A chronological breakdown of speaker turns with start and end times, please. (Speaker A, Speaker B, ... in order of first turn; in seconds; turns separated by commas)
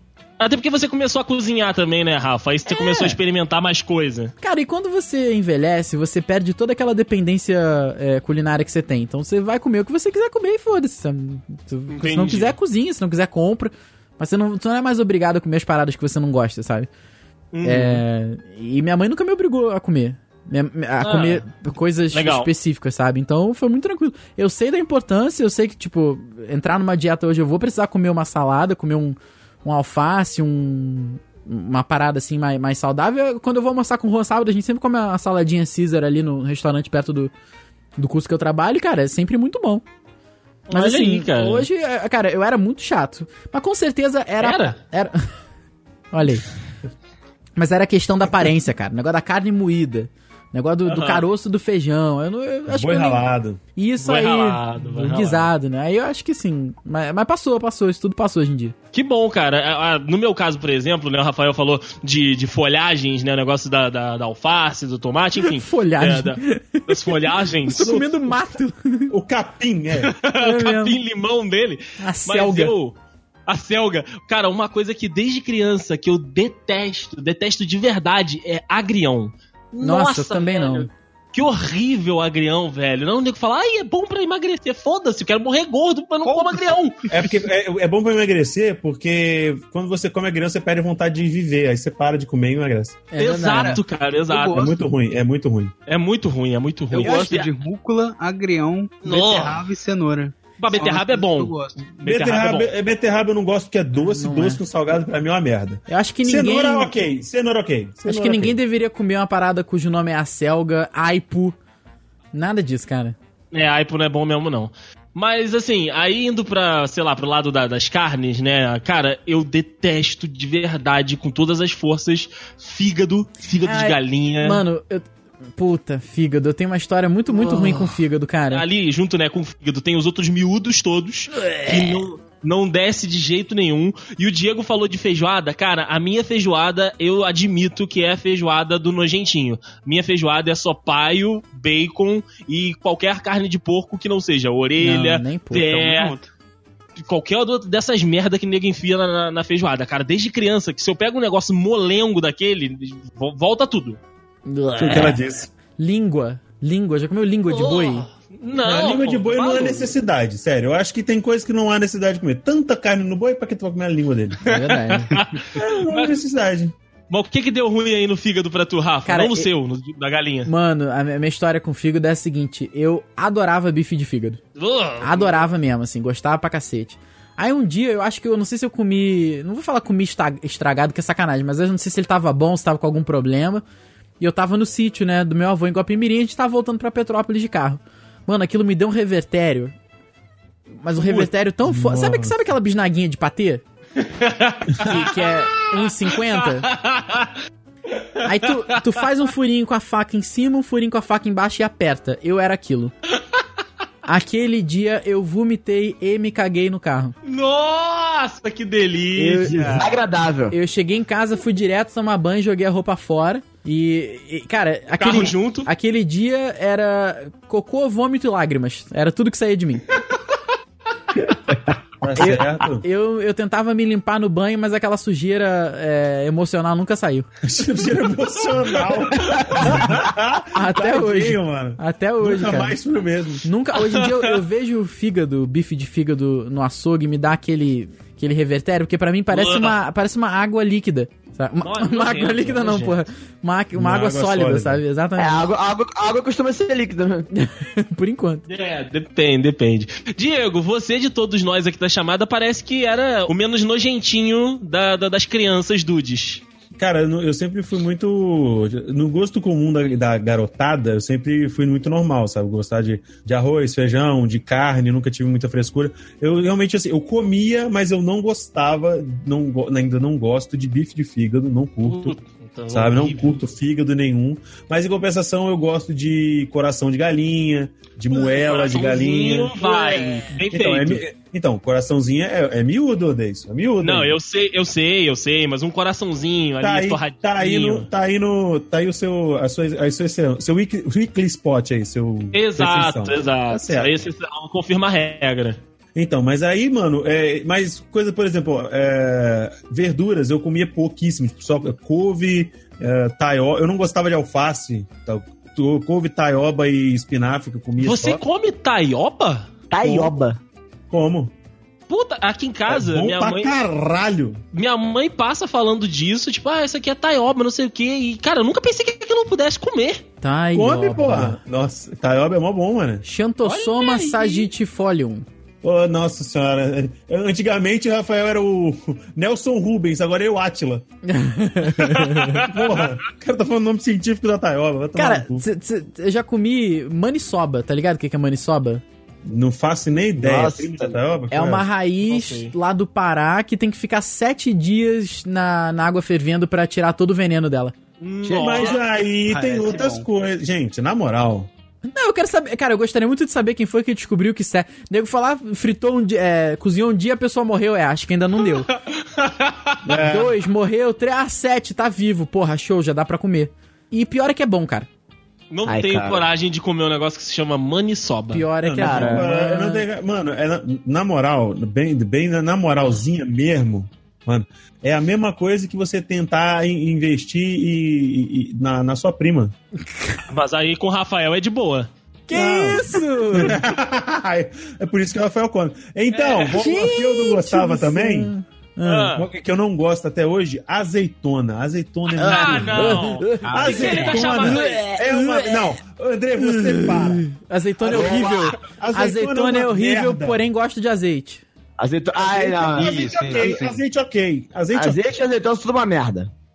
Speaker A: 0.4-4.3, Speaker B: 2.7-3.2, Speaker B: 4.4-16.9, Speaker A: 11.9-12.6, Speaker A: 17.5-18.0, Speaker B: 17.6-37.3, Speaker A: 21.0-21.5, Speaker A: 22.1-22.5, Speaker B: 38.0-39.8, Speaker A: 40.7-41.7, Speaker B: 40.7-45.2, Speaker A: 44.4-44.8, Speaker B: 46.1-46.5, Speaker B: 47.6-53.2, Speaker A: 50.9-51.3, Speaker C: 52.7-53.6, Speaker B: 53.8-58.8, Speaker A: 54.0-55.5, Speaker A: 58.9-68.0, Speaker B: 65.4-69.1, Speaker C: 67.7-68.4, Speaker C: 69.1-70.1, Speaker A: 70.1-73.0, Speaker B: 70.3-71.0, Speaker B: 72.0-72.7, Speaker A: 73.5-87.0, Speaker B: 79.8-80.9, Speaker D: 86.2-86.7, Speaker C: 87.1-93.0, Speaker B: 93.1-93.8, Speaker A: 93.2-94.7, Speaker D: 94.3-94.8, Speaker C: 94.5-95.7, Speaker A: 95.9-97.5, Speaker D: 96.9-101.9, Speaker A: 99.0-99.6, Speaker A: 100.6-102.7, Speaker C: 102.0-108.6, Speaker B: 104.0-104.6, Speaker B: 105.9-106.9, Speaker B: 108.1-111.6, Speaker B: 112.3-113.2, Speaker A: 113.5-124.6, Speaker B: 123.6-125.1, Speaker B: 125.6-128.6, Speaker A: 127.3-128.0, Speaker A: 128.5-146.2, Speaker B: 144.8-145.8, Speaker D: 145.6-146.3, Speaker A: 147.0-154.0, Speaker B: 154.5-155.2, Speaker C: 154.8-155.5, Speaker B: 155.8-158.1, Speaker A: 157.5-159.9, Speaker C: 158.6-164.4, Speaker B: 164.4-165.2, Speaker A: 164.5-166.2, Speaker C: 165.6-166.7, Speaker A: 167.1-170.5, Speaker B: 169.1-169.5, Speaker B: 170.5-174.4, Speaker A: 174.6-175.4, Speaker B: 175.0-183.6, Speaker B: 184.2-189.8, Speaker B: 190.8-193.6, Speaker C: 191.0-192.5, Speaker A: 194.0-197.3, Speaker B: 194.8-196.7, Speaker A: 198.1-198.9, Speaker B: 198.2-202.9, Speaker B: 204.1-207.2, Speaker A: 207.2-210.0, Speaker B: 209.2-209.8, Speaker E: 209.5-210.6, Speaker B: 210.5-219.9, Speaker A: 215.0-215.7, Speaker C: 222.0-222.8, Speaker B: 222.2-227.3, Speaker C: 227.4-233.5, Speaker B: 230.5-232.8, Speaker B: 233.4-245.5, Speaker A: 233.8-234.3, Speaker A: 239.3-239.8, Speaker A: 241.6-243.0, Speaker C: 243.7-244.8, Speaker E: 245.2-247.3, Speaker B: 247.3-248.4, Speaker A: 248.5-256.4, Speaker C: 256.8-272.2, Speaker A: 271.8-273.4, Speaker C: 272.7-279.9, Speaker A: 278.1-281.0, Speaker B: 280.0-280.3, Speaker C: 280.5-284.2, Speaker A: 283.8-287.9, Speaker C: 286.6-294.1, Speaker A: 292.3-295.6, Speaker C: 295.9-308.2, Speaker A: 307.8-310.1, Speaker E: 309.7-310.4, Speaker C: 310.9-311.3, Speaker A: 311.9-313.5, Speaker C: 312.7-314.4, Speaker A: 314.5-320.0, Speaker B: 320.2-321.4, Speaker C: 320.5-323.1, Speaker B: 323.0-325.3, Speaker A: 323.4-324.5, Speaker C: 325.6-330.9, Speaker B: 331.1-332.4, Speaker C: 331.6-335.4, Speaker B: 335.0-338.8, Speaker C: 339.2-341.7, Speaker E: 340.2-341.0, Speaker B: 341.3-347.7, Speaker A: 342.0-342.5, Speaker A: 348.0-348.8, Speaker C: 348.2-351.5, Speaker D: 349.3-350.1, Speaker B: 351.9-358.7, Speaker A: 358.8-359.8, Speaker C: 359.8-360.4, Speaker B: 360.0-364.9, Speaker A: 365.5-368.5, Speaker E: 365.7-366.2, Speaker B: 368.3-369.9, Speaker C: 368.6-379.5, Speaker E: 368.8-369.3, Speaker A: 380.3-381.9, Speaker B: 382.3-383.6, Speaker C: 382.3-388.3, Speaker A: 386.1-386.6, Speaker B: 386.5-389.1, Speaker A: 388.8-389.3, Speaker C: 389.1-397.3, Speaker A: 392.2-394.9, Speaker B: 392.2-393.4, Speaker D: 393.4-394.5, Speaker B: 394.5-395.7, Speaker B: 396.4-401.4, Speaker C: 397.8-400.4, Speaker E: 397.9-398.6, Speaker E: 401.8-403.6, Speaker C: 402.2-405.0, Speaker D: 402.6-403.8, Speaker E: 404.7-406.3